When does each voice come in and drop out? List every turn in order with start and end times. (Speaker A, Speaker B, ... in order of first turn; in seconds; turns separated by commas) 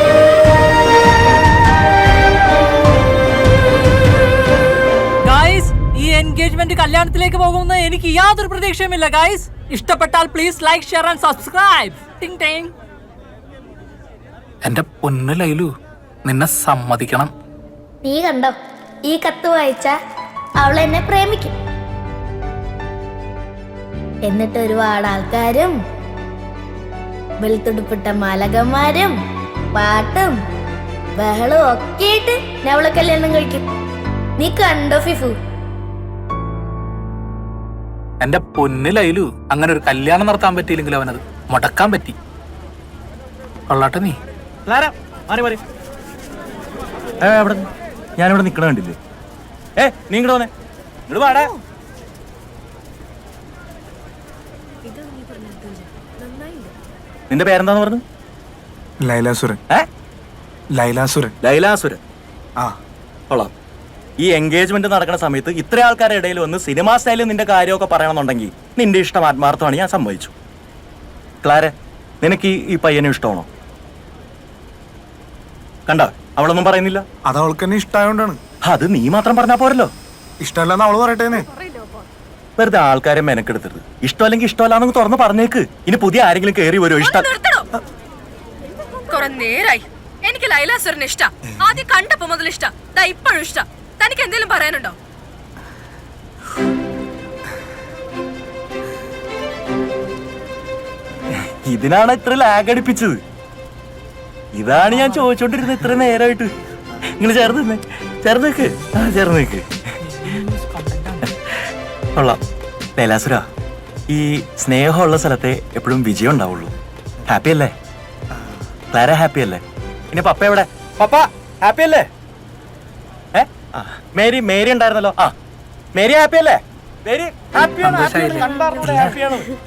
Speaker A: 5.2-12.7, Speaker B: 14.6-15.7, Speaker B: 16.2-17.3, Speaker C: 18.0-19.9, Speaker C: 20.6-21.5, Speaker C: 24.2-25.8, Speaker C: 27.4-29.1, Speaker C: 29.7-30.4, Speaker C: 31.1-33.6, Speaker C: 34.4-35.4, Speaker B: 38.2-42.1, Speaker B: 43.7-44.2, Speaker D: 44.7-45.6, Speaker D: 47.2-47.7, Speaker D: 48.2-48.9, Speaker D: 49.8-50.5, Speaker D: 51.1-51.5, Speaker D: 57.3-58.0, Speaker E: 59.0-59.6, Speaker E: 60.7-61.3, Speaker D: 61.4-62.0, Speaker D: 64.2-70.3, Speaker D: 71.4-73.5, Speaker D: 75.9-77.0, Speaker E: 77.3-78.4, Speaker D: 78.6-79.9, Speaker E: 80.4-81.5, Speaker D: 82.6-87.3, Speaker F: 87.1-87.5, Speaker F: 89.1-94.9, Speaker E: 91.5-91.8, Speaker D: 101.7-103.2, Speaker D: 104.5-106.5, Speaker D: 107.2-109.7, Speaker B: 110.7-111.0, Speaker D: 113.0-113.4, Speaker D: 114.1-116.7, Speaker D: 117.3-117.7, Speaker E: 118.3-118.6, Speaker D: 118.9-119.6, Speaker D: 120.1-122.1, Speaker D: 123.3-125.3, Speaker D: 125.9-129.5, Speaker B: 127.8-129.1